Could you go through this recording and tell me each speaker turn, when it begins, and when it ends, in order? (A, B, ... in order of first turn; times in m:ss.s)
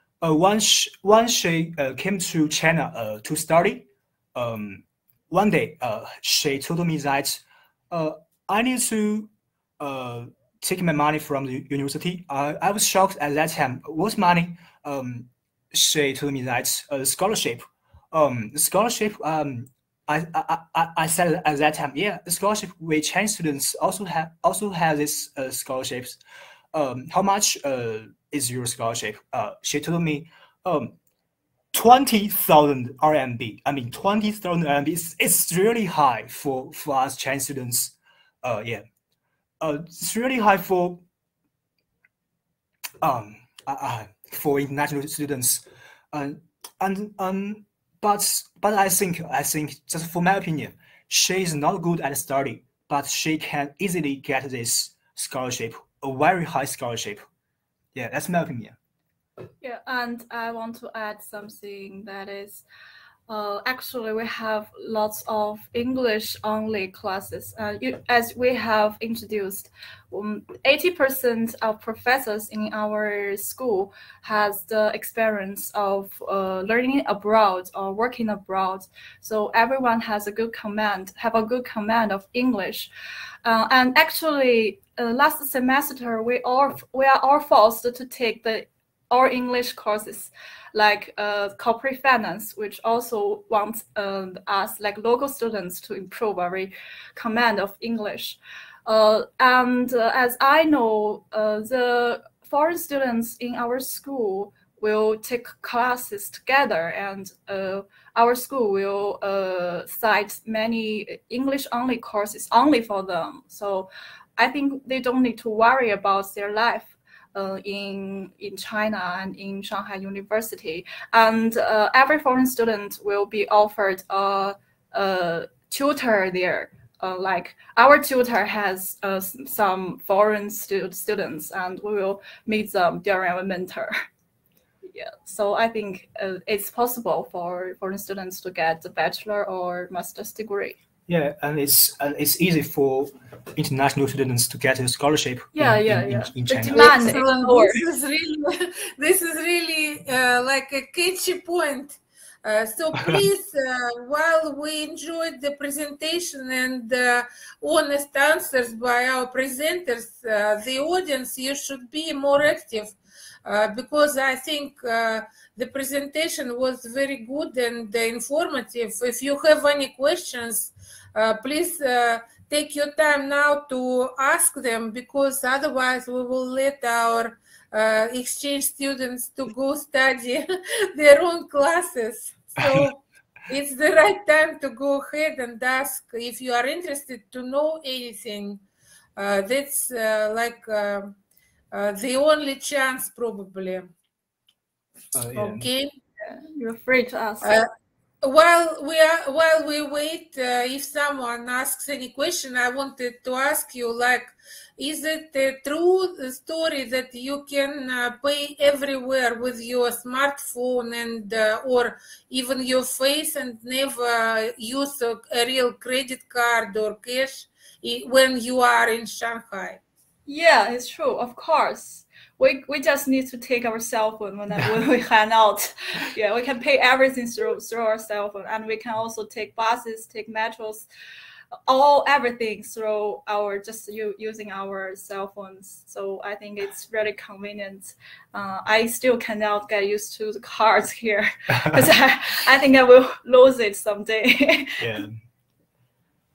0:00.2-0:26.2 A
0:26.7-0:31.0 A
0:31.7-0:38.8 A
0:39.6-0:41.0 A
0:43.0-0:57.2 A
0:58.0-0:58.8 A
0:59.6-1:02.6 B
1:03.3-1:22.9 B
1:23.4-2:13.9 B
2:14.9-2:20.8 B
2:21.1-2:27.1 A
2:25.5-2:27.8 B
2:26.7-3:08.6 C
2:33.0-2:33.2 A
3:09.2-3:11.2 C
3:11.7-3:13.9 C
3:15.2-3:15.7 A
3:15.3-3:15.9 C
3:16.2-3:17.6 B
3:17.4-3:17.7 C
3:18.2-3:39.8 C
3:40.3-3:50.9 B
3:51.7-4:04.8 B
4:01.5-4:01.8 A
4:04.8-4:05.2 A